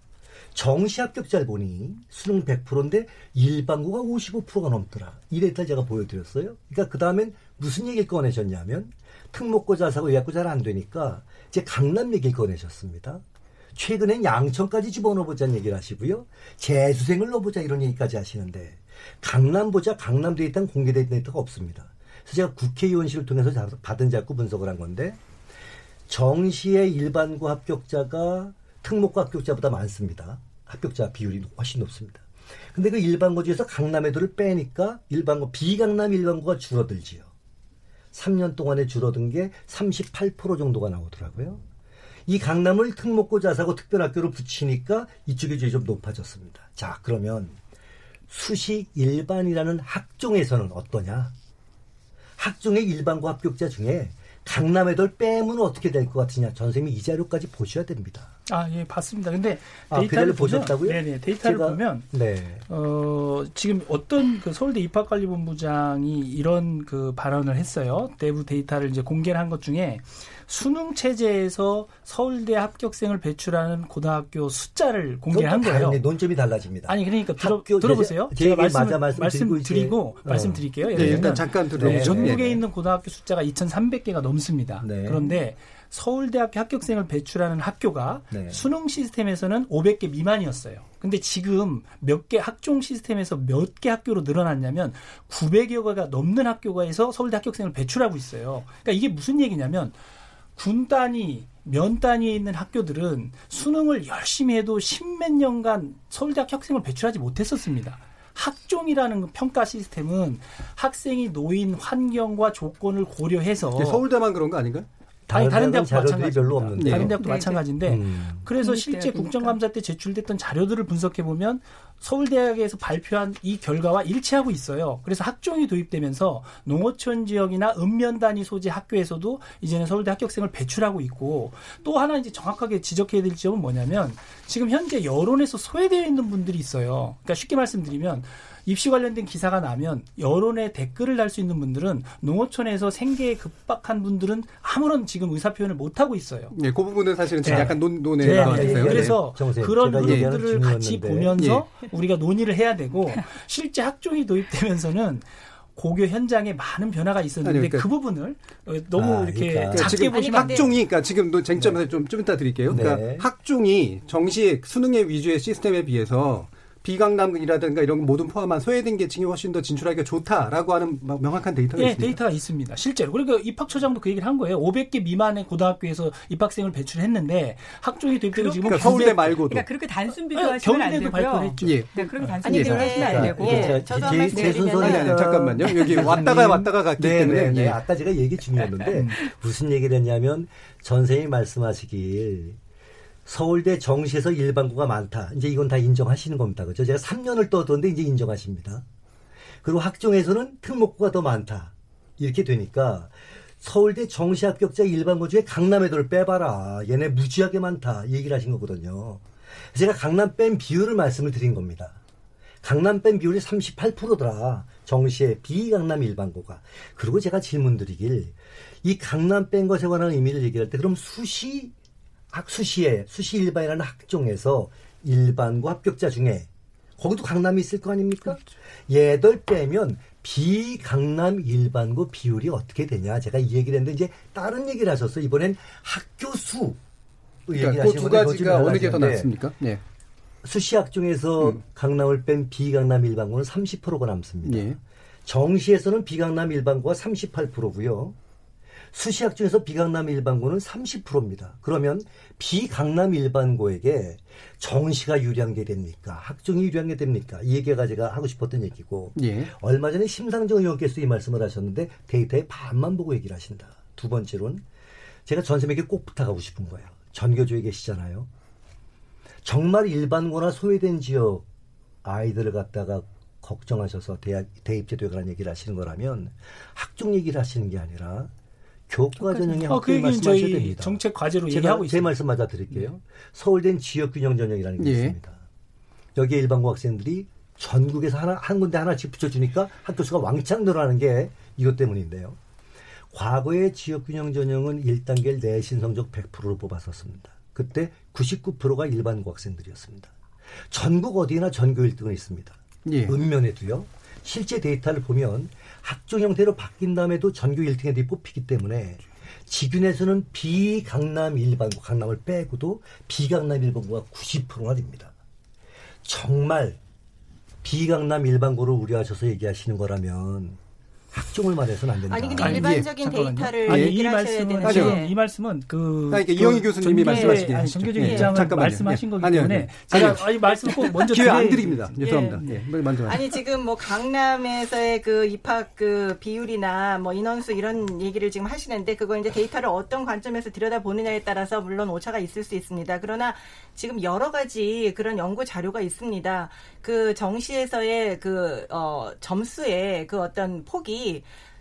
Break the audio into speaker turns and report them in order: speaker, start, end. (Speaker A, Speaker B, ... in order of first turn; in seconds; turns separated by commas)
Speaker A: 0.6-13.2, Speaker A: 13.8-25.2, Speaker A: 26.1-37.3, Speaker A: 38.1-41.6, Speaker A: 42.3-47.6, Speaker A: 48.3-51.3, Speaker A: 52.4-58.3, Speaker B: 58.5-62.1, Speaker A: 59.9-62.6, Speaker B: 62.7-76.0, Speaker A: 75.3-82.6, Speaker B: 76.9-100.0, Speaker C: 80.9-82.6, Speaker A: 84.8-85.3, Speaker A: 88.3-88.7, Speaker B: 100.6-114.0, Speaker C: 113.7-114.9, Speaker A: 115.3-117.2, Speaker B: 115.3-146.6, Speaker C: 116.8-117.2, Speaker D: 117.2-117.7, Speaker A: 117.8-118.5, Speaker D: 118.6-119.6, Speaker C: 146.5-149.2, Speaker B: 147.4-160.8, Speaker A: 147.5-151.4, Speaker C: 149.9-150.4, Speaker C: 151.4-151.8, Speaker C: 157.4-157.9, Speaker A: 158.9-160.1, Speaker C: 159.7-172.2, Speaker E: 160.1-160.7, Speaker A: 162.7-163.3, Speaker B: 171.7-179.4, Speaker D: 178.3-184.8, Speaker C: 178.6-179.7, Speaker B: 180.3-183.7, Speaker C: 181.6-182.9, Speaker E: 182.4-185.4, Speaker A: 182.9-192.6, Speaker C: 184.4-187.8, Speaker D: 185.7-185.9, Speaker B: 188.9-189.1, Speaker A: 193.3-198.8, Speaker A: 199.6-212.0, Speaker A: 212.6-221.7, Speaker A: 222.3-236.8, Speaker A: 237.5-239.3, Speaker C: 237.6-239.8, Speaker A: 240.4-248.2, Speaker C: 244.4-244.8, Speaker A: 248.9-264.6, Speaker C: 259.2-259.5, Speaker A: 265.3-268.3, Speaker A: 269.4-271.4, Speaker A: 272.0-278.3, Speaker A: 278.9-285.4, Speaker B: 279.4-282.2, Speaker C: 284.8-285.1, Speaker A: 286.1-292.4, Speaker A: 293.1-300.1, Speaker A: 300.7-315.1, Speaker C: 302.9-303.2, Speaker A: 316.0-316.8, Speaker A: 317.6-320.6, Speaker A: 321.1-322.7, Speaker E: 322.1-325.2, Speaker B: 322.4-332.6, Speaker C: 322.5-322.9, Speaker C: 323.6-324.0, Speaker C: 324.6-325.1, Speaker C: 326.1-333.3, Speaker E: 327.0-328.6, Speaker E: 332.0-332.4, Speaker E: 333.1-351.3